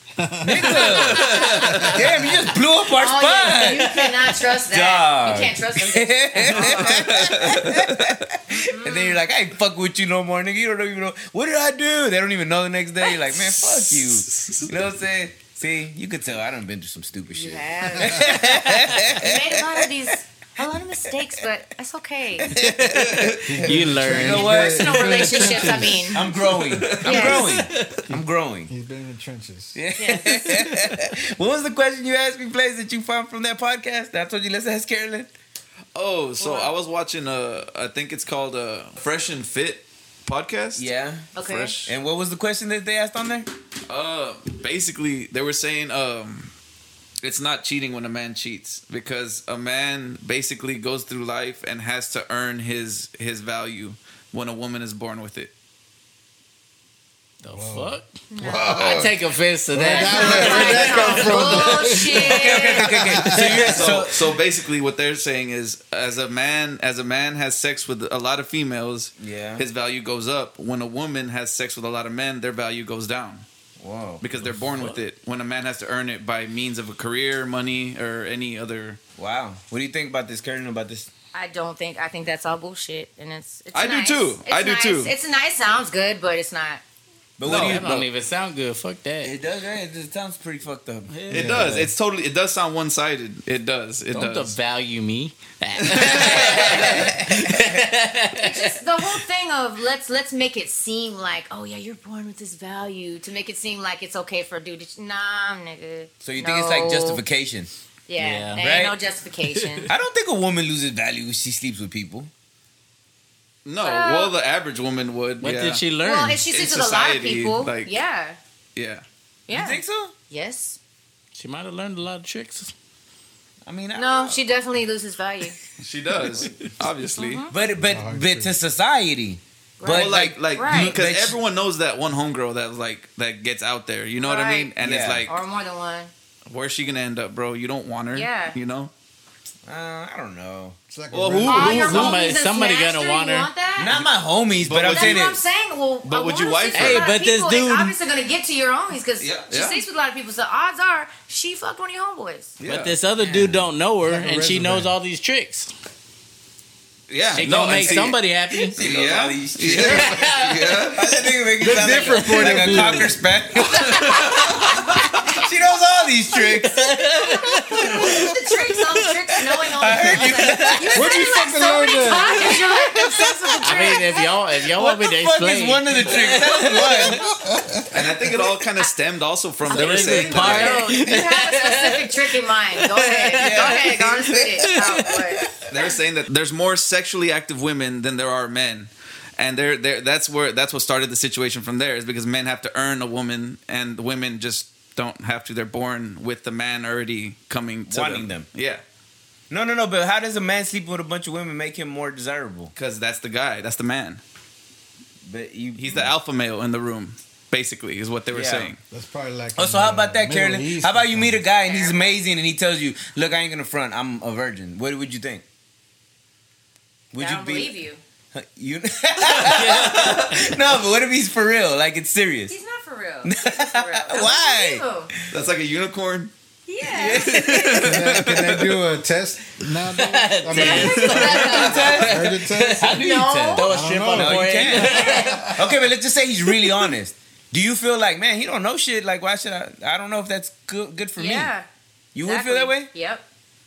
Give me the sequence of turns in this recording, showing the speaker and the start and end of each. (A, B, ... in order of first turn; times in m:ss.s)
0:00.2-0:02.5 A
0:00.4-0:19.9 B
0:00.8-0:01.9 C
0:02.9-0:07.1 D
0:06.5-0:08.2 C
0:08.5-0:09.2 D
0:13.3-0:14.7 C
0:17.3-0:18.4 D
0:19.0-0:22.5 D
0:22.4-0:23.2 B
0:22.6-0:25.8 E
0:22.9-0:23.6 C
0:23.4-0:26.2 A
0:23.8-0:25.2 B
0:24.3-0:26.2 D
0:26.1-0:28.7 B
0:26.4-0:27.5 C
0:27.0-0:27.6 D
0:27.5-0:28.0 E
0:28.7-0:29.8 A
0:29.7-0:35.3 B
0:30.0-0:30.6 D
0:35.9-0:41.9 C
0:36.4-0:36.7 D
0:40.7-0:43.5 B
0:41.3-0:41.8 D
0:43.9-0:46.5 C
0:47.2-0:55.5 C
0:57.4-0:58.1 E
0:57.5-0:59.1 A
0:58.3-0:59.1 D
0:58.6-1:02.3 E
0:59.7-1:04.0 A
0:59.9-1:02.9 D
1:02.2-1:04.4 B
1:03.3-1:13.4 C
1:09.2-1:09.6 B
1:13.8-1:14.2 B
1:14.2-1:19.0 C
1:14.4-1:15.0 E
1:19.2-1:21.1 B
1:21.3-1:26.8 D
1:23.7-1:25.1 C
1:27.4-1:28.1 B
1:27.4-1:27.9 C
1:27.5-1:29.3 E
1:29.2-1:31.5 B
1:31.1-1:31.6 E
1:31.3-1:34.6 C
1:31.3-1:31.9 A
1:34.1-1:38.8 E
1:35.8-1:37.0 C
1:36.3-1:37.8 B
1:38.3-1:47.2 D
1:46.2-1:47.7 B
1:48.1-1:49.9 D
1:48.2-1:48.6 E
1:48.6-1:49.0 B
1:49.5-1:49.9 E
1:49.9-1:52.3 B
1:53.6-1:55.8 C
1:53.8-1:54.3 D
1:55.4-1:56.4 E
1:56.0-1:58.4 D
1:56.5-1:57.9 C
1:58.7-1:59.0 C
1:59.5-2:00.8 D
1:59.5-2:00.1 B
2:01.3-2:02.7 E
2:03.6-2:04.4 B
2:03.9-2:05.6 D
2:05.8-2:07.5 C
2:07.2-2:07.5 D
2:07.5-2:11.4 B
2:07.8-2:08.6 A
2:09.8-2:11.0 D
2:09.9-2:15.4 C
2:14.2-2:14.7 D
2:14.8-2:15.3 B
2:15.2-2:16.1 D
2:16.5-2:18.9 C
2:18.1-2:18.6 D
2:19.6-2:20.8 B
2:20.9-2:22.1 A
2:21.1-2:22.2 C
2:21.4-2:23.9 D
2:21.8-2:23.9 E
2:23.8-2:25.4 B
2:24.6-2:25.2 C
2:24.9-2:32.5 D
2:26.0-2:27.1 C
2:26.7-2:27.9 E
2:29.2-2:29.8 C
2:32.6-2:33.0 C
2:32.6-2:35.7 E
2:33.2-2:33.6 B
2:34.0-2:34.9 A
2:37.1-2:38.2 C
2:37.3-2:38.8 E
2:38.7-2:41.1 C
2:38.7-2:48.3 B
2:39.9-2:40.7 E
2:41.6-2:43.1 A
2:41.8-2:43.1 E
2:43.8-2:44.6 C
2:46.5-2:48.3 E
2:47.2-2:54.3 D
2:49.7-2:51.2 B
2:50.9-2:52.6 A
2:52.5-2:54.0 B
2:53.6-2:57.3 E
2:54.7-2:57.2 B
2:57.1-2:58.2 A
2:57.9-3:00.9 C
2:59.7-3:05.5 D
2:59.7-3:05.2 E
2:59.7-3:00.8 B
3:03.4-3:04.7 B
3:05.7-3:18.8 C
3:17.9-3:18.5 B
3:19.5-3:22.7 B
3:22.7-3:24.2 C
3:25.2-3:26.1 B
3:25.8-3:28.8 C
3:28.3-3:28.7 B
3:28.9-3:31.4 A
3:29.6-3:35.4 B
3:31.6-3:32.1 D
3:37.1-3:37.8 B
3:37.2-3:38.0 D
3:38.3-3:42.5 B
3:39.2-3:40.4 C
3:39.5-3:40.2 E
3:42.5-3:45.1 D
3:43.2-3:44.8 B
3:45.3-3:46.3 C
3:46.6-3:47.8 D
3:46.9-3:48.3 B
3:47.0-3:48.6 C
3:47.8-3:53.0 A
3:49.9-3:55.6 E
3:50.5-3:52.0 D
3:50.7-3:51.5 C
3:51.4-4:01.5 B
3:52.9-3:53.7 D
3:53.6-3:55.7 A
3:54.8-3:55.4 D
4:01.2-4:01.7 D
4:02.1-4:02.9 B
4:02.2-4:03.2 D